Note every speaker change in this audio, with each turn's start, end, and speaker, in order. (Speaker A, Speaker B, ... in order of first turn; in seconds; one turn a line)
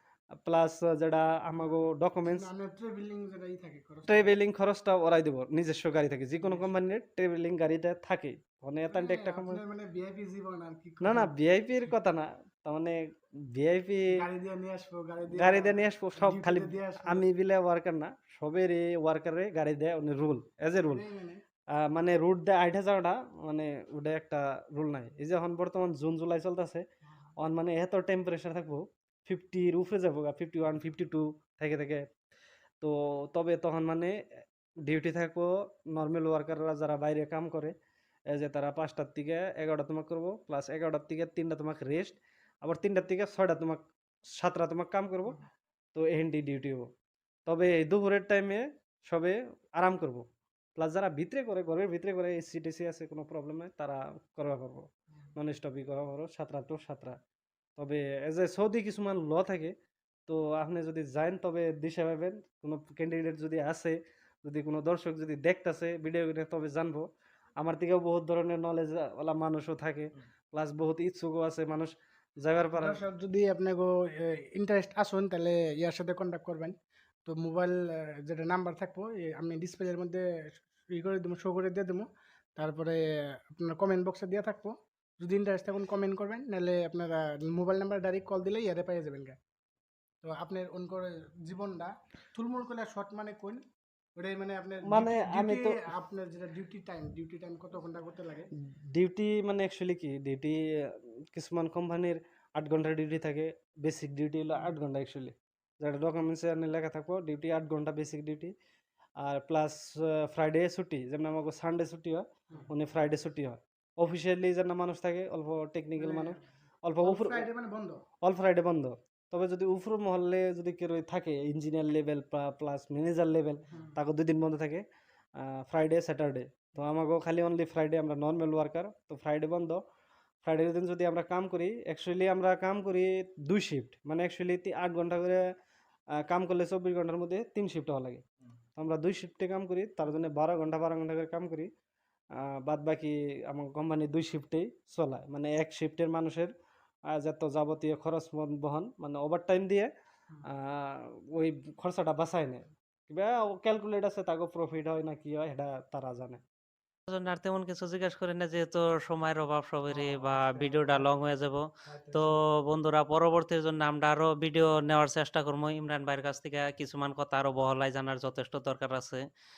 Speaker A: 0.4-2.5
Speaker B: 2.2-4.4
Speaker A: 4.1-9.6
Speaker B: 6.4-6.7
Speaker B: 8.9-11.9
Speaker A: 11.0-14.1
Speaker B: 14.1-17.2
Speaker A: 15.3-21.0
Speaker B: 20.8-21.4
Speaker A: 21.7-26.8
Speaker A: 27.4-32.0
Speaker A: 32.8-34.2
Speaker A: 34.8-37.7
Speaker A: 38.3-45.4
Speaker A: 45.9-46.9
Speaker A: 47.5-50.2
Speaker A: 50.8-57.2
Speaker A: 57.8-59.7
Speaker A: 60.3-67.1
Speaker A: 67.6-73.0
Speaker B: 72.7-80.2
Speaker B: 80.9-89.4
Speaker B: 90.2-93.6
Speaker B: 94.2-98.5
Speaker A: 94.8-95.9
Speaker A: 98.7-108.5
Speaker A: 109.2-117.5
Speaker B: 116.0-116.4
Speaker B: 117.0-118.0
Speaker A: 118.2-124.8
Speaker B: 123.7-124.0
Speaker A: 125.4-129.8
Speaker A: 130.4-135.4
Speaker A: 136.1-138.2
Speaker A: 138.8-141.7
Speaker A: 142.3-146.5
Speaker A: 147.1-149.9
Speaker A: 150.4-156.4
Speaker C: 157.1-169.2
Speaker B: 159.9-161.3
Speaker B: 161.8-162.4